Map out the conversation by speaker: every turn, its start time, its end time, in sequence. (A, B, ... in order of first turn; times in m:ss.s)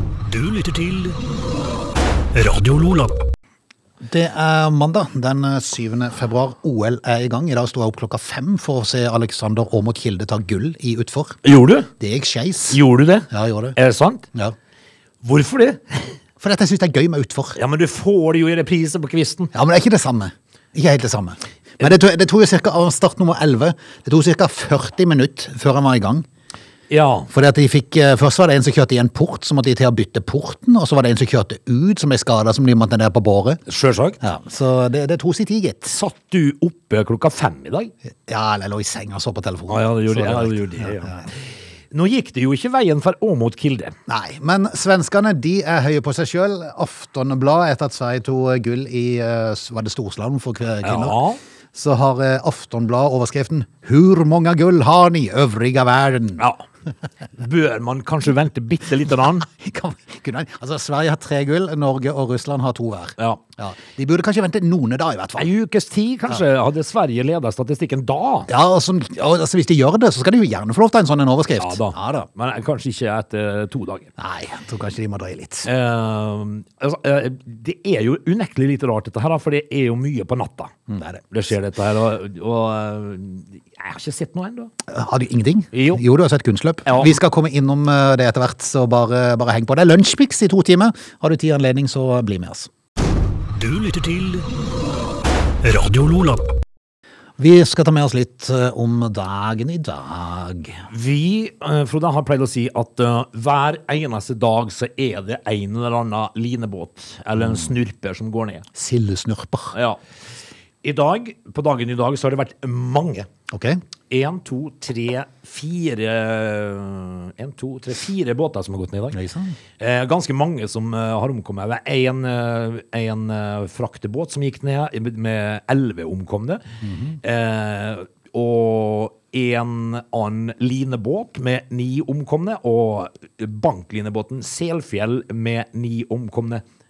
0:00.2-0:01.2 A
0:02.3-0:03.2 A
0:04.0-0:11.4 B
0:11.4-0:11.9 C
0:12.0-0:13.8 B
0:12.7-0:14.2 C
0:15.2-0:16.1 C
0:16.4-0:17.6 B
0:17.6-0:19.5 C
0:19.5-0:26.3 B
0:26.9-0:27.3 C
0:27.3-0:33.6 B
0:33.7-0:34.2 C
0:34.2-0:36.0 B
0:35.9-0:37.9 C
0:38.3-0:41.3 B
0:39.7-0:44.0 C
0:44.1-0:51.2 B
0:50.8-0:51.4 C
0:51.7-0:56.4 B
0:56.4-0:56.6 C
0:57.4-0:59.5 C
0:59.5-1:05.5 B
1:05.4-1:08.5 C
1:08.5-1:12.3 B
1:11.6-1:14.1 C
1:14.2-1:15.7 B
1:15.6-1:20.7 C
1:20.9-1:21.2 B
1:21.3-1:24.7 C
1:24.9-1:32.7 B
1:25.7-1:26.0 C
1:26.9-1:27.2 C
1:33.6-1:34.5 A
1:35.6-1:36.5 A
1:37.4-1:40.9 B
1:40.9-1:48.7 C
1:47.4-1:47.7 B
1:48.7-1:49.8 B
1:49.7-1:50.0 C
1:50.8-1:53.3 C
1:53.5-1:53.8 B
1:54.1-1:59.2 C
1:59.1-1:59.6 B
1:59.8-2:06.6 C
2:06.8-2:07.2 B
2:07.2-2:16.6 C